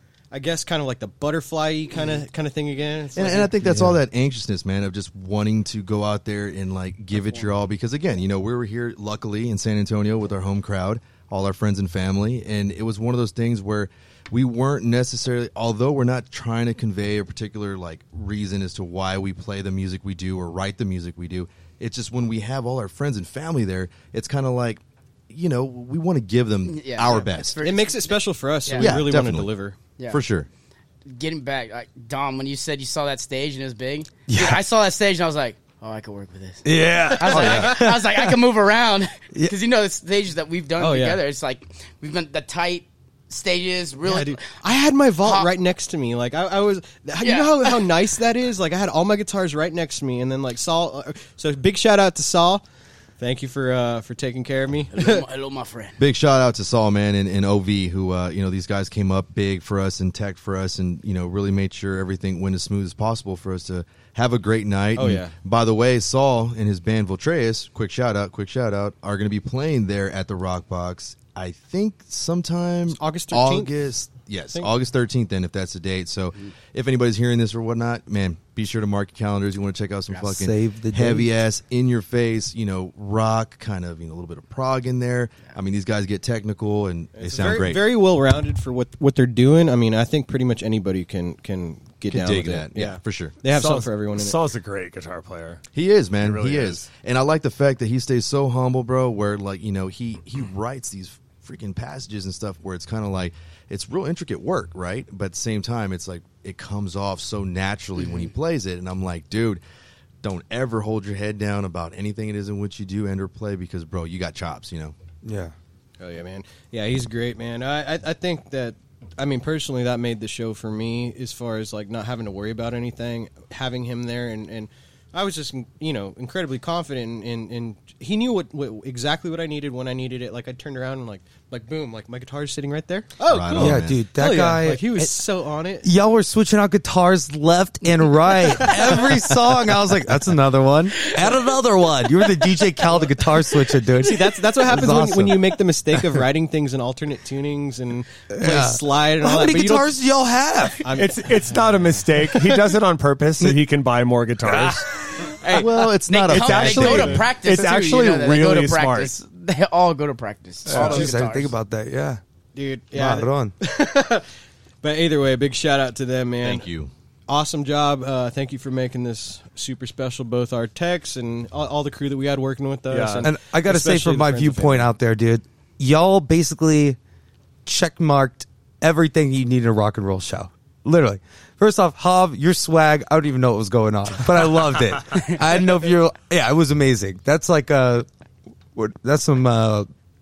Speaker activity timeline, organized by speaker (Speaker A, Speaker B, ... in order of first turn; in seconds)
Speaker A: 0.3-4.0, 27.6-29.8, 40.8-41.2, 44.0-52.6, 53.2-55.2, 64.9-65.3, 72.9-73.7, 87.2-94.4, 116.0-135.9, 138.5-139.1, 143.9-149.9, 150.8-151.9, 155.4-155.7, 160.8-161.0, 162.5-164.2, 164.8-166.7, 167.3-174.9
Speaker B: 3.1-27.6, 28.8-29.5, 30.1-30.5, 56.0-87.8, 92.1-93.3, 95.7-109.6, 110.2-114.9, 133.2-134.0, 155.5-157.2, 166.4-166.9
Speaker C: 26.7-28.9, 31.1-44.4, 45.2-45.5, 47.2-47.9, 54.9-56.0, 156.1-161.5
Speaker D: 34.3-34.6, 36.6-38.4, 80.2-81.3, 115.2-115.5, 133.6-135.1, 135.8-146.2, 148.3-150.9, 154.5-154.8, 160.7-162.2, 162.9-163.5, 173.2-177.0, 177.6-188.1, 188.7-189.9
Speaker E: 93.5-95.6, 96.2-96.9, 150.9-155.6, 156.3-159.1, 160.7-161.1, 172.9-173.3